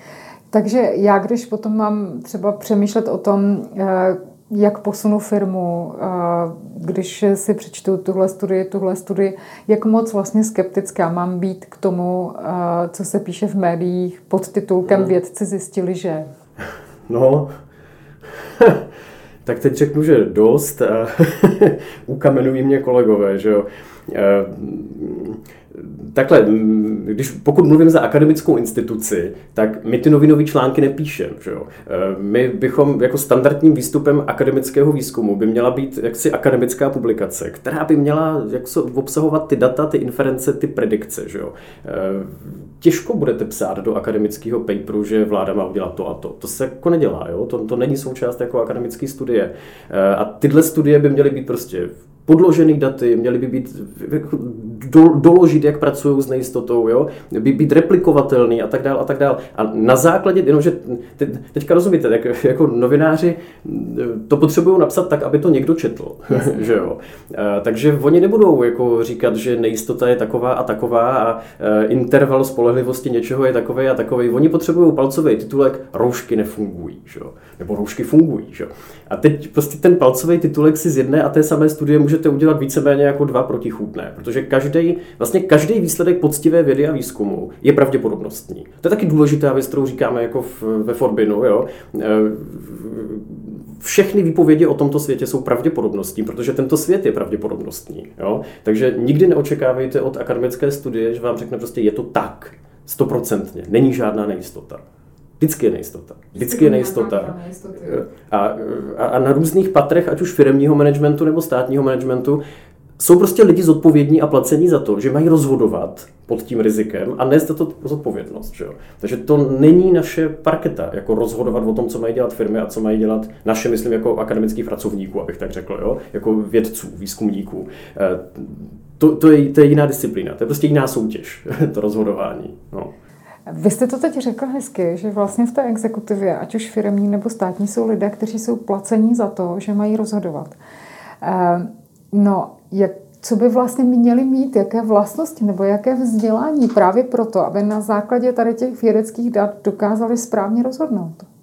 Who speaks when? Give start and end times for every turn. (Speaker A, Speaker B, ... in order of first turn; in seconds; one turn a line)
Speaker A: 0.5-16.3
Speaker B: 17.1-17.5
Speaker B: 18.4-18.8
Speaker B: 19.4-104.8
Speaker A: 66.3-66.8
Speaker B: 105.4-112.4
Speaker A: 106.4-108.1
Speaker B: 113.0-132.9
Speaker A: 133.5-140.6
Speaker A: 141.2-151.3